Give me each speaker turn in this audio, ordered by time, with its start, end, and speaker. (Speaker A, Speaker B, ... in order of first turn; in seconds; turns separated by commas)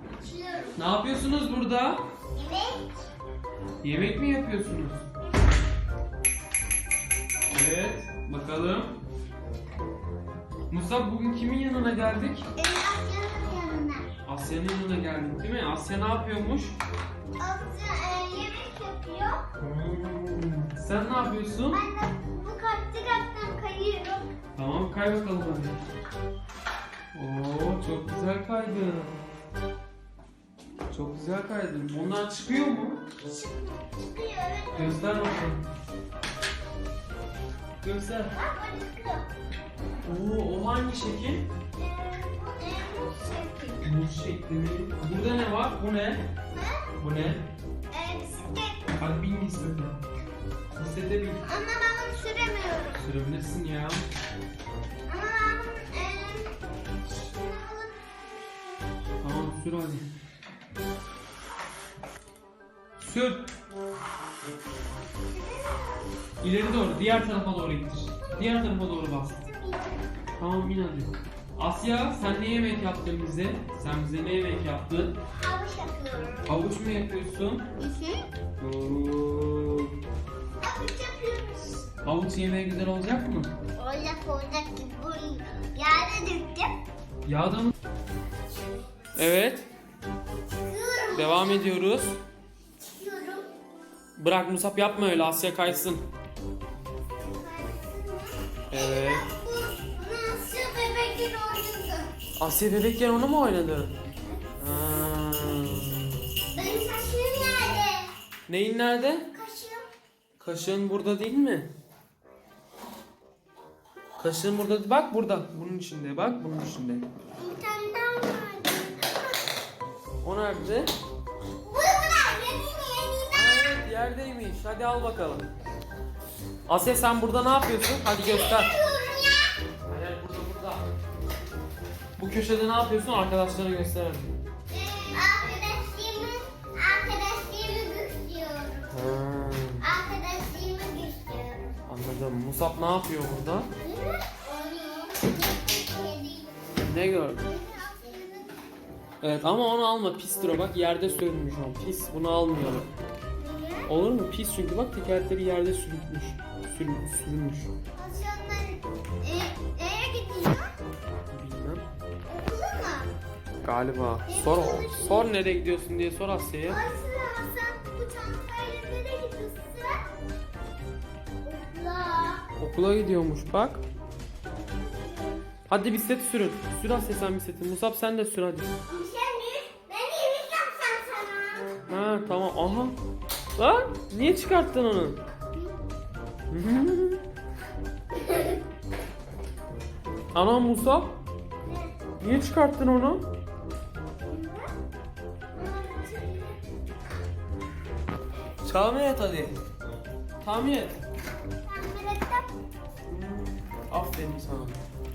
Speaker A: 0.2-0.8, Speaker B: 0.7-2.0, Speaker A: 2.3-3.0, Speaker B: 3.8-5.1, Speaker B: 7.5-9.0, Speaker B: 10.7-12.5, Speaker A: 12.6-14.1, Speaker B: 14.2-16.8, Speaker A: 17.4-19.5, Speaker B: 19.6-21.8, Speaker A: 21.7-24.3, Speaker B: 24.5-25.8, Speaker B: 27.1-29.1, Speaker B: 30.9-33.1, Speaker A: 33.2-35.3, Speaker B: 34.7-35.6, Speaker B: 37.8-38.3, Speaker A: 38.3-39.3, Speaker B: 40.0-41.5, Speaker A: 41.8-43.9, Speaker B: 43.8-46.3, Speaker A: 46.5-46.9, Speaker B: 47.0-47.4, Speaker A: 47.9-48.9, Speaker B: 48.9-50.0, Speaker B: 50.7-51.5, Speaker A: 51.4-53.1, Speaker B: 52.9-54.0, Speaker A: 55.1-59.0, Speaker B: 59.2-60.0, Speaker B: 63.0-63.5, Speaker A: 65.3-66.1, Speaker B: 66.4-69.4, Speaker A: 68.3-70.1, Speaker B: 70.3-75.2, Speaker A: 75.3-76.6, Speaker B: 76.5-77.7, Speaker A: 77.8-78.2, Speaker B: 78.6-79.9, Speaker A: 80.6-81.9, Speaker B: 82.0-83.5, Speaker A: 83.7-86.7, Speaker B: 87.2-87.7, Speaker B: 89.1-89.7, Speaker A: 90.5-91.7, Speaker B: 91.1-92.2, Speaker A: 92.9-93.5, Speaker B: 94.2-96.0, Speaker A: 97.2-102.1, Speaker B: 98.7-99.3, Speaker B: 102.4-103.9, Speaker B: 104.6-106.2, Speaker A: 106.5-108.1, Speaker B: 108.5-109.3, Speaker A: 109.3-109.9, Speaker B: 110.4-111.7, Speaker B: 114.2-117.0, Speaker A: 117.4-119.5, Speaker B: 120.2-120.9, Speaker A: 121.6-123.7, Speaker B: 123.3-125.4, Speaker B: 126.7-128.7, Speaker A: 128.2-129.6, Speaker B: 129.8-130.8, Speaker B: 132.2-134.4, Speaker A: 134.7-139.2, Speaker B: 138.9-139.8, Speaker A: 139.8-141.8, Speaker B: 141.9-143.7, Speaker A: 143.8-146.7, Speaker B: 146.8-147.5, Speaker A: 147.2-148.6, Speaker B: 149.2-152.9, Speaker A: 153.4-153.9, Speaker B: 153.9-157.7, Speaker A: 157.9-160.8, Speaker B: 161.3-161.8, Speaker A: 162.3-163.1, Speaker B: 163.6-166.8, Speaker A: 164.3-165.3, Speaker A: 166.7-170.1, Speaker A: 171.4-172.4, Speaker B: 172.6-173.8, Speaker A: 174.8-175.4, Speaker B: 175.7-178.7, Speaker A: 178.9-181.8, Speaker B: 181.9-182.9, Speaker B: 183.6-185.2, Speaker B: 186.5-187.2, Speaker A: 188.2-188.5, Speaker B: 190.3-191.1, Speaker A: 191.6-191.9, Speaker B: 192.2-193.2, Speaker A: 194.2-194.7, Speaker A: 195.5-196.6, Speaker B: 198.6-199.6, Speaker B: 200.4-201.0, Speaker A: 201.6-202.5, Speaker B: 203.1-204.8